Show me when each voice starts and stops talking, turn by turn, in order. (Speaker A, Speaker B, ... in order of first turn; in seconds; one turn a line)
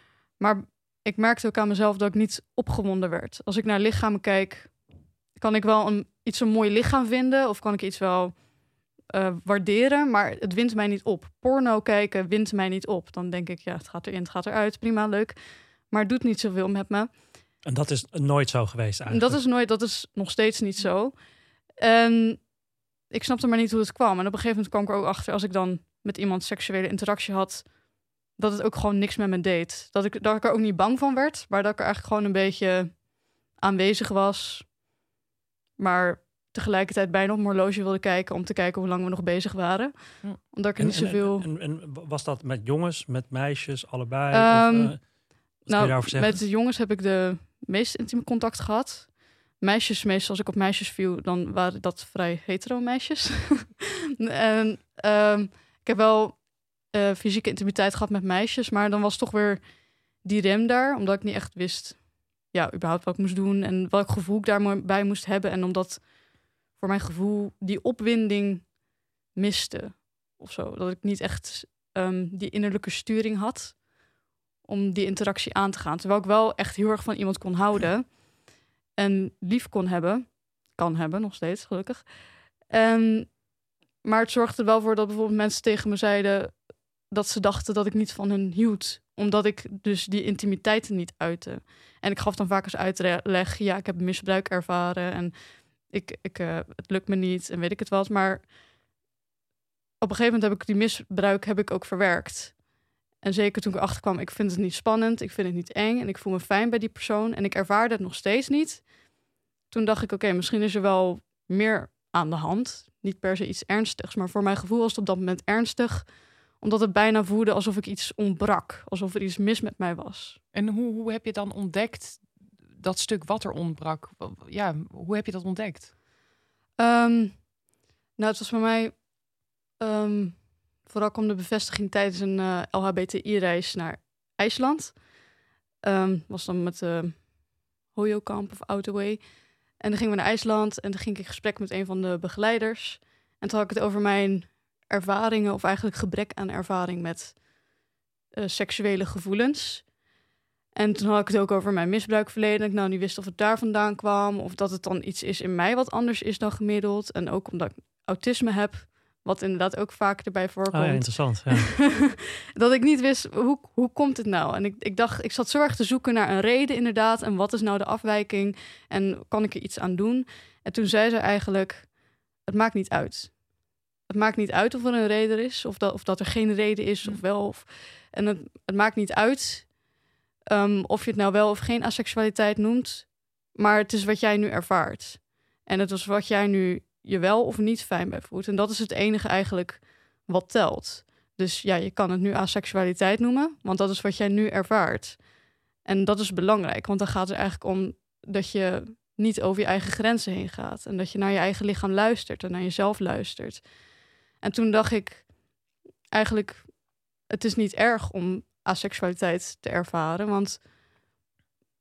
Speaker A: 0.3-4.7
Speaker A: 5.3-8.4
Speaker A: 9.1-17.1
Speaker B: 17.6-19.4
Speaker A: 19.1-22.5
Speaker A: 23.1-27.8
Speaker A: 28.3-34.7
Speaker A: 35.8-41.5
Speaker B: 40.8-46.4
Speaker A: 44.3-66.1
Speaker A: 66.7-68.8
Speaker A: 69.3-73.8
Speaker A: 74.6-78.2
Speaker A: 78.9-83.4
Speaker A: 84.0-98.5
Speaker A: 100.0-102.6
Speaker A: 103.2-108.9
Speaker A: 109.7-120.4
Speaker C: 120.5-125.9
Speaker A: 126.8-127.5
Speaker A: 128.2-129.1
Speaker A: 129.8-135.0
Speaker A: 135.8-137.3
Speaker A: 137.9-147.4
Speaker A: 148.3-149.9
Speaker A: 150.7-173.5
Speaker B: 160.7-161.7
Speaker A: 174.0-179.8
Speaker A: 180.5-195.3
Speaker A: 195.8-203.7
Speaker A: 204.4-205.3
Speaker A: 206.1-210.6